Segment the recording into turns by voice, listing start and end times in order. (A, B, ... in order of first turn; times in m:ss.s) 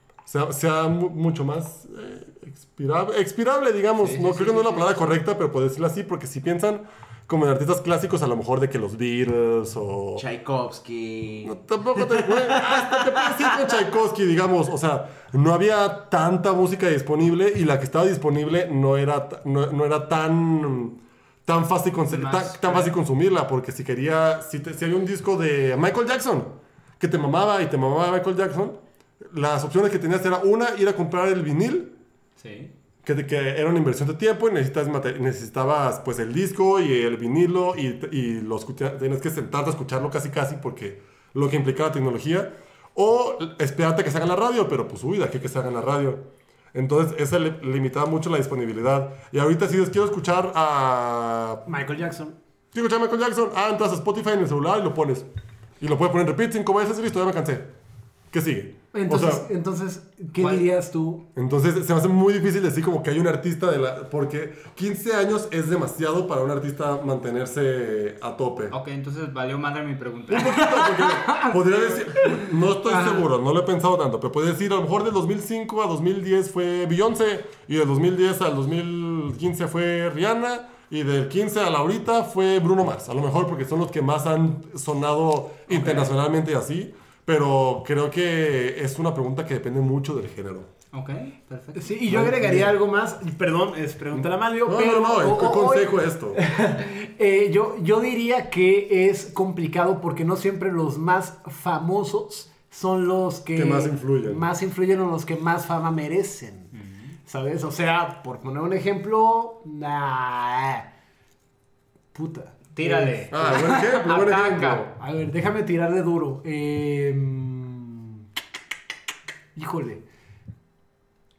0:00.3-0:10.2 A
0:04.0-0:05.2 B
0:10.2-0:13.6 C
0:11.4-0:31.9 A
0:22.1-0:22.9 B
0:32.4-0:32.7 B
0:33.0-0:46.2 A
0:46.7-0:51.6 A
0:51.7-0:52.4 D
0:52.7-0:55.3 A
0:55.8-0:57.7 A
0:58.3-0:59.5 A
0:58.9-1:01.2 D
1:00.4-1:00.7 B
1:01.4-1:08.8 A
1:08.7-1:11.6 B
1:10.3-1:30.7 A
1:12.9-1:13.2 D
1:25.7-1:26.1 B
1:30.9-1:32.0 B
1:31.8-1:46.7 D
1:32.1-1:32.7 A
1:34.1-1:36.4 A
1:43.6-1:44.4 A
1:46.7-1:47.2 B
1:47.3-1:50.8 D
1:52.1-1:58.2 D
1:52.8-1:54.8 B
1:53.3-1:54.9 A
1:59.6-2:00.0 D